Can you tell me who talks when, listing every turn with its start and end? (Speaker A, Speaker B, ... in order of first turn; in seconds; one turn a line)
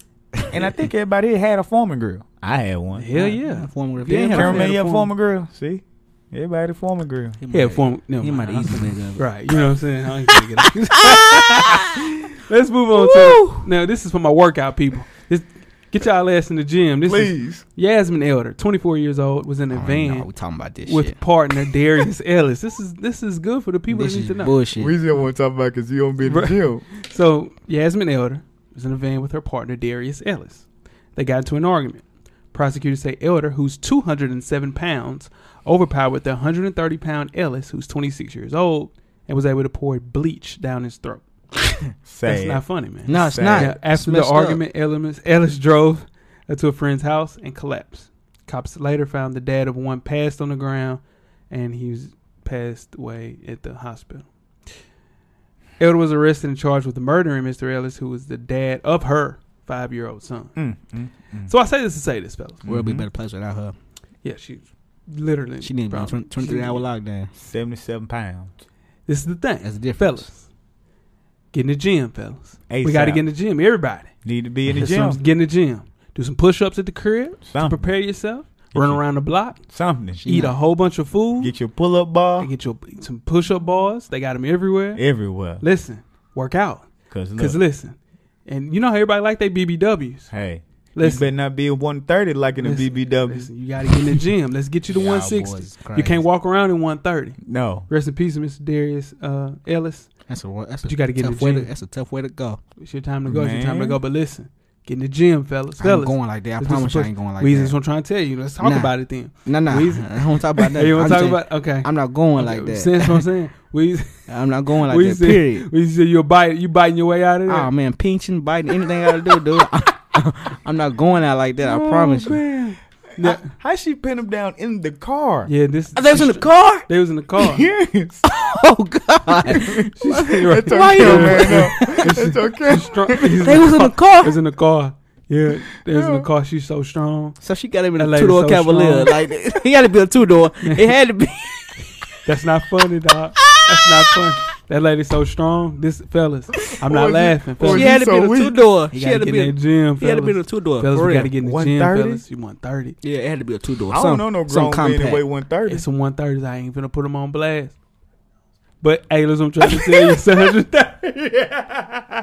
Speaker A: 0.5-3.1
Speaker B: 3.0-5.1
Speaker C: 3.1-4.7
Speaker A: 4.3-7.4
Speaker C: 7.4-9.2
Speaker B: 7.5-11.8
Speaker C: 10.3-11.8
Speaker B: 12.4-20.3
Speaker C: 13.0-13.6
Speaker A: 17.0-17.6
Speaker C: 19.7-21.2
Speaker B: 20.9-24.6
Speaker C: 23.9-24.9
Speaker A: 24.8-26.9
Speaker B: 26.2-41.2
Speaker A: 42.0-43.7
Speaker B: 42.2-54.3
Speaker C: 43.1-44.6
Speaker B: 55.8-60.5
Speaker A: 60.5-61.5
Speaker B: 61.5-62.6
Speaker A: 62.6-63.1
Speaker C: 62.6-63.7
Speaker B: 64.2-66.8
Speaker C: 65.6-67.3
Speaker A: 67.3-68.6
Speaker B: 69.1-70.4
Speaker C: 69.6-70.3
Speaker B: 71.5-74.1
Speaker A: 72.7-73.2
Speaker A: 74.2-75.2
Speaker B: 74.7-79.6
Speaker A: 77.5-77.9
Speaker A: 78.7-79.0
Speaker A: 79.6-80.2
Speaker C: 80.2-80.5
Speaker B: 80.2-81.5
Speaker A: 81.4-82.5
Speaker B: 82.4-85.0
Speaker A: 85.0-85.6
Speaker B: 85.6-90.3
Speaker A: 87.1-87.6
Speaker A: 90.3-93.5
Speaker B: 90.9-91.3
Speaker B: 92.6-100.1
Speaker C: 94.9-96.2
Speaker A: 97.4-97.9
Speaker C: 100.3-102.6
Speaker B: 100.8-101.7
Speaker B: 102.8-114.3
Speaker A: 103.3-104.0
Speaker C: 105.8-107.8
Speaker C: 108.6-113.2
Speaker C: 114.3-115.7
Speaker B: 114.8-117.7
Speaker C: 117.5-122.4
Speaker A: 121.6-125.5
Speaker B: 123.2-123.5
Speaker B: 125.5-127.7
Speaker C: 126.0-126.8
Speaker A: 127.4-128.4
Speaker C: 128.3-129.9
Speaker A: 129.4-133.6
Speaker B: 129.9-137.4
Speaker C: 130.5-132.2
Speaker C: 133.3-134.4
Speaker A: 135.9-136.3
Speaker C: 137.4-142.1
Speaker B: 138.0-139.1
Speaker B: 140.6-140.9
Speaker B: 142.2-148.0
Speaker A: 146.8-148.6
Speaker C: 147.6-151.3
Speaker B: 148.9-153.0
Speaker A: 151.4-152.2
Speaker C: 153.0-155.2
Speaker A: 153.9-155.8
Speaker B: 155.7-157.7
Speaker B: 158.8-161.5
Speaker A: 161.5-162.0